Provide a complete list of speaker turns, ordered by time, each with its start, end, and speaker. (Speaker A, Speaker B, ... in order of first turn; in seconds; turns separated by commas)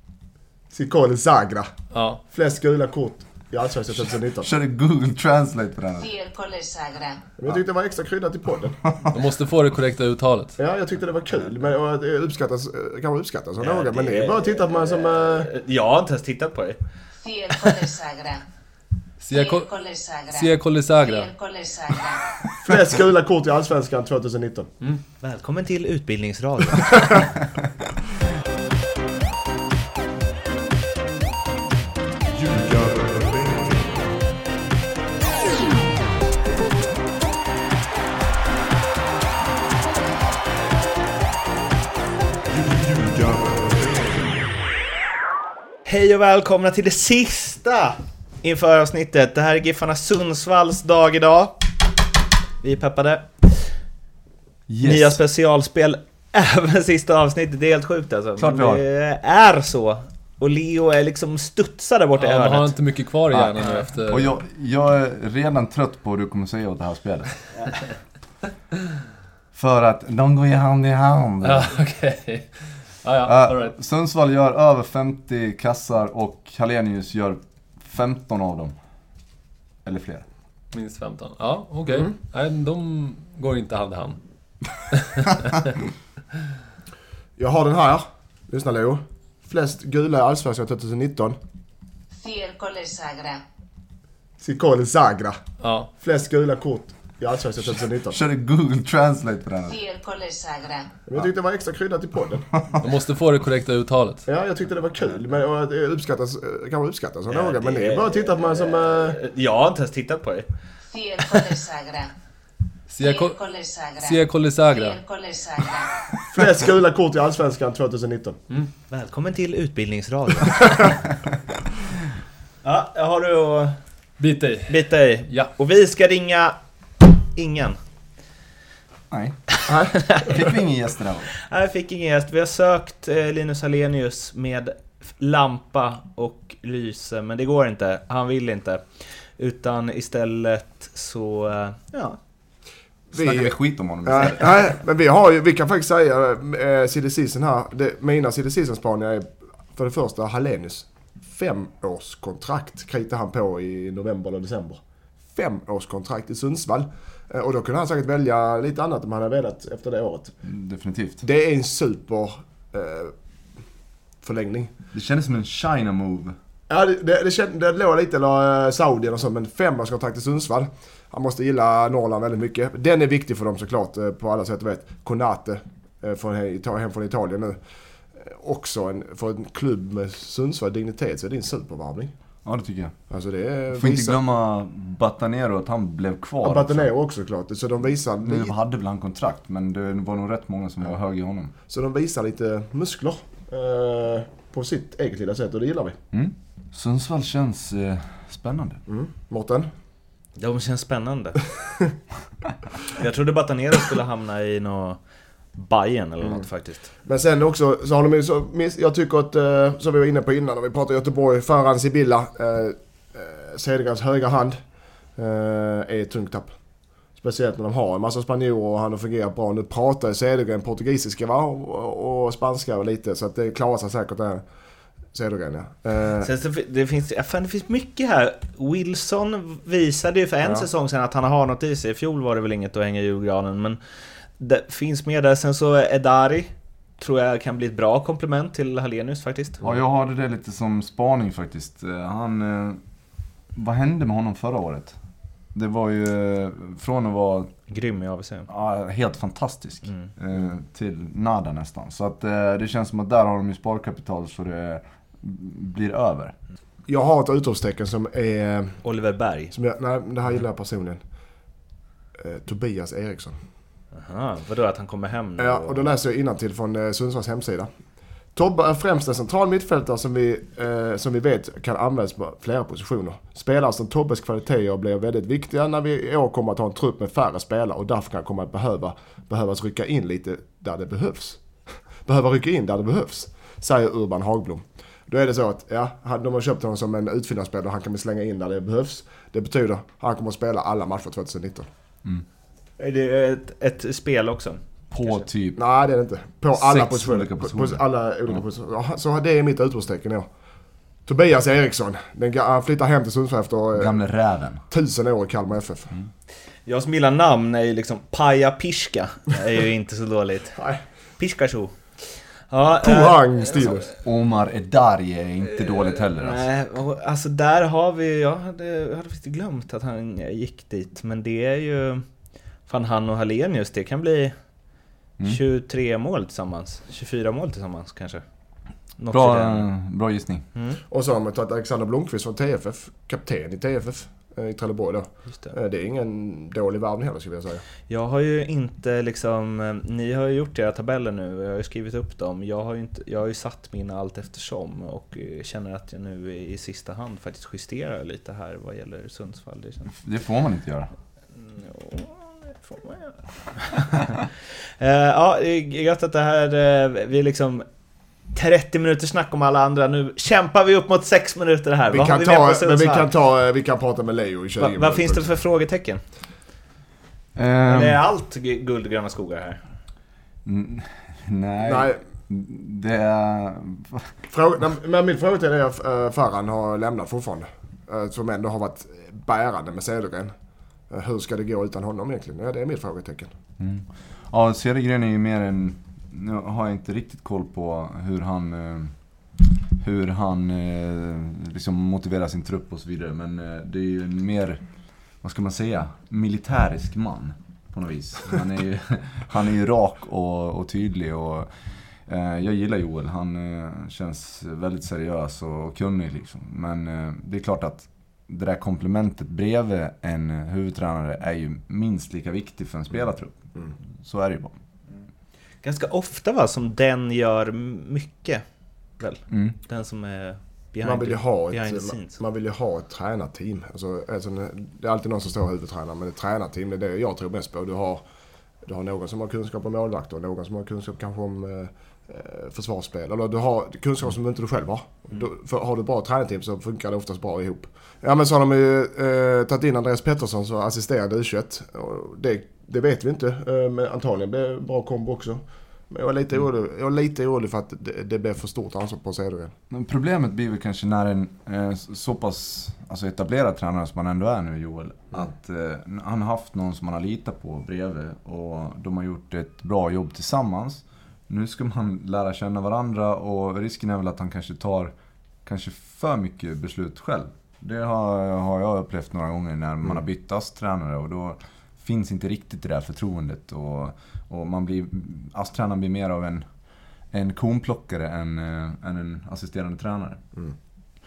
Speaker A: 0.7-1.7, Speaker B: 1.9-2.2, Speaker A: 2.3-4.5, Speaker C: 4.3-6.1, Speaker D: 6.0-7.2, Speaker A: 7.4-8.8, Speaker B: 9.1-10.5, Speaker A: 10.6-15.5, Speaker E: 13.6-16.8, Speaker E: 17.3-18.1, Speaker D: 17.7-18.4, Speaker B: 19.2-21.4, Speaker D: 21.3-22.1, Speaker A: 22.6-24.7, Speaker E: 25.2-27.3, Speaker A: 32.4-33.9, Speaker A: 42.7-44.1, Speaker E: 45.8-51.6, Speaker E: 52.6-53.7, Speaker C: 54.7-55.2, Speaker E: 54.8-62.7, Speaker C: 58.4-58.8, Speaker B: 62.2-64.3, Speaker C: 63.3-67.3, Speaker C: 69.5-71.7, Speaker B: 71.4-72.5, Speaker B: 73.0-73.7, Speaker C: 73.2-78.7, Speaker C: 79.8-80.2, Speaker B: 80.7-84.2, Speaker B: 84.9-85.6, Speaker A: 87.4-91.3, Speaker D: 92.2-93.4, Speaker A: 94.4-95.4, Speaker B: 95.6-95.9, Speaker A: 96.0-98.2, Speaker C: 97.9-99.8, Speaker D: 99.7-101.0, Speaker A: 101.1-102.5, Speaker C: 102.5-102.9, Speaker B: 102.8-104.2, Speaker A: 104.3-109.2, Speaker E: 107.3-110.5, Speaker E: 111.0-111.9, Speaker D: 111.3-112.1, Speaker B: 112.9-115.1, Speaker D: 114.9-115.8, Speaker A: 116.3-118.4, Speaker E: 118.9-121.0, Speaker E: 122.6-123.8, Speaker B: 124.2-125.5, Speaker E: 124.7-126.5, Speaker E: 127.1-127.8, Speaker C: 129.1-129.4, Speaker A: 129.7-129.9, Speaker C: 130.1-131.3, Speaker E: 131.4-138.8, Speaker E: 139.4-142.2, Speaker A: 143.1-143.5, Speaker C: 143.1-144.6, Speaker A: 144.0-154.8, Speaker A: 155.3-160.3, Speaker C: 160.4-161.2, Speaker A: 161.2-163.1, Speaker A: 164.2-164.7, Speaker C: 164.9-166.3, Speaker A: 166.7-177.6, Speaker A: 178.2-182.1, Speaker C: 182.4-182.9, Speaker A: 183.1-184.2, Speaker C: 183.7-186.9, Speaker A: 186.4-188.5, Speaker C: 188.2-191.5, Speaker A: 191.7-196.0, Speaker C: 196.1-198.8, Speaker A: 198.9-199.7, Speaker E: 200.4-201.4, Speaker E: 202.9-205.0, Speaker E: 205.5-206.9, Speaker A: 207.1-214.6, Speaker A: 215.2-216.5, Speaker A: 217.2-224.4, Speaker A: 225.1-226.3, Speaker E: 226.2-233.8, Speaker E: 234.4-239.6, Speaker C: 239.6-242.8, Speaker C: 243.5-244.9, Speaker C: 245.5-247.5, Speaker E: 247.7-248.5, Speaker C: 248.5-256.3, Speaker A: 256.9-258.8, Speaker E: 258.8-259.5, Speaker A: 259.5-261.0, Speaker A: 262.2-263.3, Speaker E: 263.9-266.0, Speaker A: 265.4-267.7, Speaker A: 268.3-281.4, Speaker A: 282.1-291.6, Speaker E: 292.8-295.2, Speaker C: 294.9-295.6, Speaker A: 295.6-300.3, Speaker C: 296.5-298.4, Speaker A: 301.1-304.0, Speaker C: 303.7-304.6, Speaker A: 304.7-305.9, Speaker E: 306.6-310.6, Speaker A: 310.5-310.8, Speaker E: 311.2-311.7, Speaker E: 312.5-313.8, Speaker A: 312.8-313.9, Speaker C: 314.0-316.5, Speaker E: 315.5-322.0, Speaker E: 322.7-324.3, Speaker E: 325.2-328.2, Speaker E: 329.0-329.7, Speaker C: 329.1-330.4, Speaker E: 330.5-330.8, Speaker A: 330.9-337.6, Speaker E: 337.9-349.9, Speaker C: 349.9-350.9, Speaker E: 351.4-354.2, Speaker E: 354.8-357.6, Speaker E: 358.3-363.1, Speaker A: 361.9-365.3, Speaker E: 364.6-366.0, Speaker C: 367.4-368.0, Speaker E: 367.6-369.6, Speaker C: 370.4-374.1, Speaker A: 371.6-372.0, Speaker A: 374.3-380.3, Speaker A: 380.9-383.3, Speaker C: 383.6-388.9, Speaker C: 389.8-394.6, Speaker C: 395.2-401.5, Speaker C: 402.1-413.4, Speaker C: 414.0-414.6, Speaker E: 415.6-418.4, Speaker E: 419.0-422.2, Speaker C: 419.3-419.6, Speaker A: 420.8-428.0, Speaker A: 428.6-449.5, Speaker C: 449.7-464.9, Speaker C: 465.4-476.4, Speaker C: 477.1-480.2